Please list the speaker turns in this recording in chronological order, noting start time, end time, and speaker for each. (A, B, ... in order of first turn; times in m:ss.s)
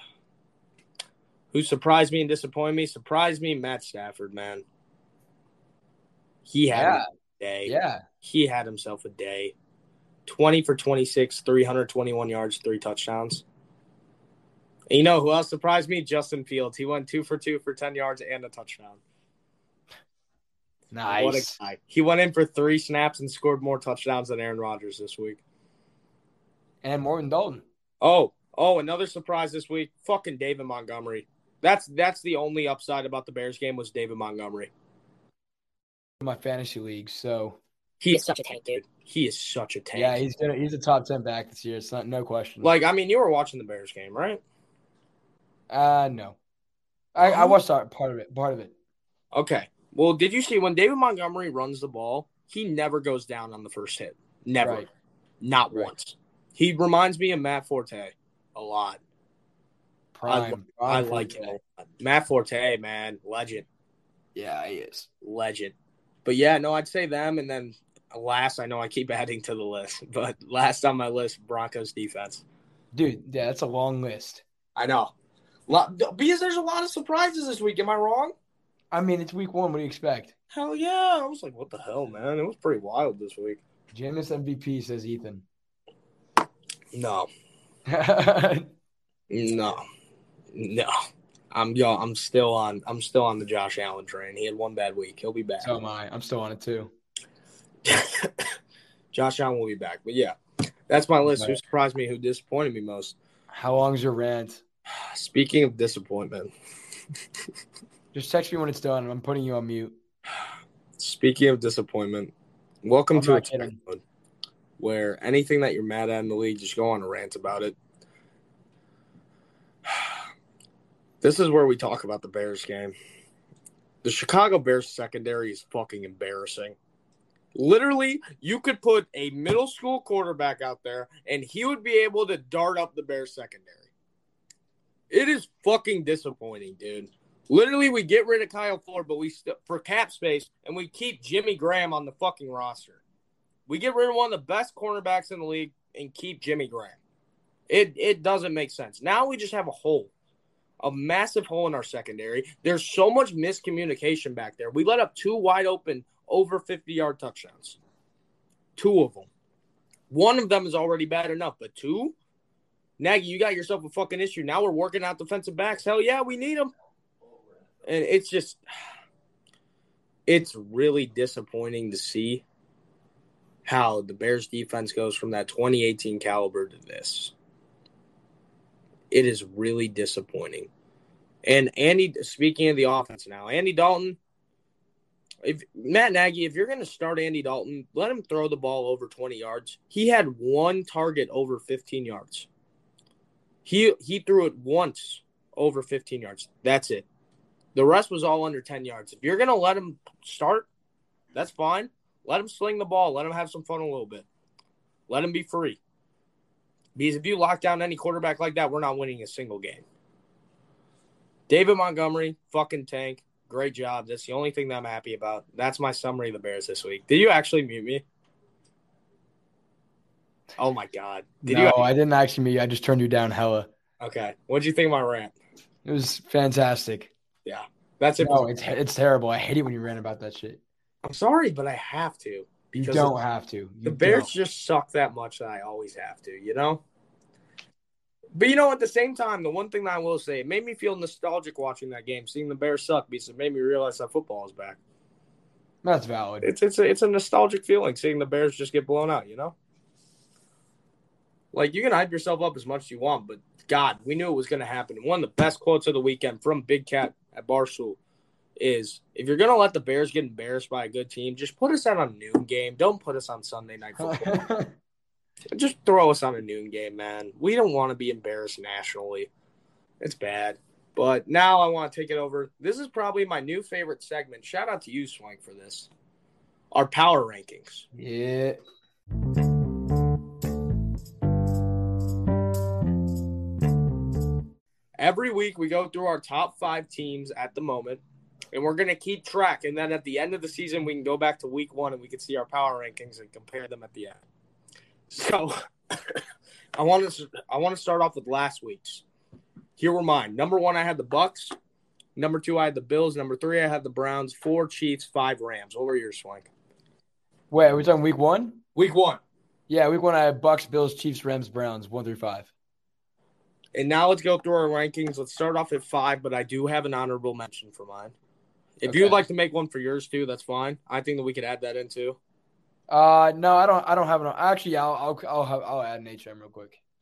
0:01.5-0:04.6 A
0:06.4-0:09.5 A
0:06.7-0:07.1 B
0:07.6-0:08.0 B
0:10.3-0:13.4 A
0:14.9-0:19.0 A
0:20.9-0:21.6 B
0:21.1-0:25.4 A
0:26.8-0:27.6 B
0:28.0-0:34.7 A
0:36.2-0:37.6 B
0:38.0-0:40.2 A
0:40.0-0:42.7 B
0:42.6-0:44.4 A
0:45.7-0:46.4 B
0:47.2-0:48.7 B
0:47.2-0:47.6 A
0:49.3-0:54.9 A
0:54.6-0:54.9 B
0:55.4-0:59.0 A
1:00.2-1:01.6 B
1:00.3-1:03.7 A
1:04.4-1:05.1 B
1:05.2-1:12.4 A
1:12.9-1:14.4 B
1:14.8-1:15.1 A
1:15.7-1:18.4 A
1:18.9-1:20.3 B
1:20.5-1:23.6 A
1:23.9-1:25.5 B
1:26.9-1:27.3 A
1:27.9-1:28.7 B
1:29.3-1:29.8 A
1:30.5-1:30.9 A
1:31.5-1:35.7 A
1:35.6-1:36.9 B
1:37.8-1:38.5 A
1:39.1-1:40.4 A
1:40.9-1:43.2 A
1:41.3-1:41.6 B
1:43.5-1:44.6 B
1:45.0-1:46.5 A
1:48.1-1:50.0 B
1:51.0-1:54.0 A
1:53.1-1:53.8 B
1:54.8-1:57.8 A
1:59.9-2:00.2 A
2:01.2-2:03.0 A
2:04.0-2:06.8 A
2:07.6-2:13.9 A
2:15.1-2:23.0 A
2:23.7-2:27.0 A
2:27.7-2:30.1 A
2:30.8-2:37.8 A
2:38.8-2:39.3 A
2:40.1-2:42.2 A
2:43.0-2:46.7 A
2:47.8-2:48.6 A
2:50.3-2:52.4 A
2:53.6-2:57.3 A
2:59.1-3:00.7 A
3:01.4-3:04.2 A
3:05.4-3:12.5 A
3:13.6-3:17.1 A
3:17.8-3:20.7 A
3:21.3-3:24.3 A
3:25.1-3:25.8 A
3:27.0-3:29.8 A
3:31.5-3:38.0 A
3:40.6-3:41.9 A
3:41.4-3:43.7 B
3:44.0-3:45.4 A
3:45.8-3:47.1 B
3:47.4-3:48.5 A
3:48.2-3:50.6 B
3:51.0-3:53.2 A
3:52.7-3:54.3 B
3:53.8-3:56.8 A
3:58.3-4:04.8 A
4:05.8-4:06.5 B
4:06.4-4:09.6 A
4:11.5-4:18.0 A
4:18.6-4:24.4 A
4:24.0-4:24.8 B
4:25.5-4:29.3 A
4:30.0-4:35.9 A
4:36.7-4:37.9 A
4:37.9-4:38.6 B
4:45.0-4:54.2 A
4:55.1-4:56.2 A
4:56.8-4:59.0 A
4:59.8-5:01.6 A
5:02.2-5:06.5 A
5:07.5-5:08.6 B
5:08.8-5:09.2 A
5:09.7-5:12.5 B
5:13.7-5:18.2 A
5:18.8-5:22.2 A
5:18.8-5:19.2 B
5:22.9-5:26.8 B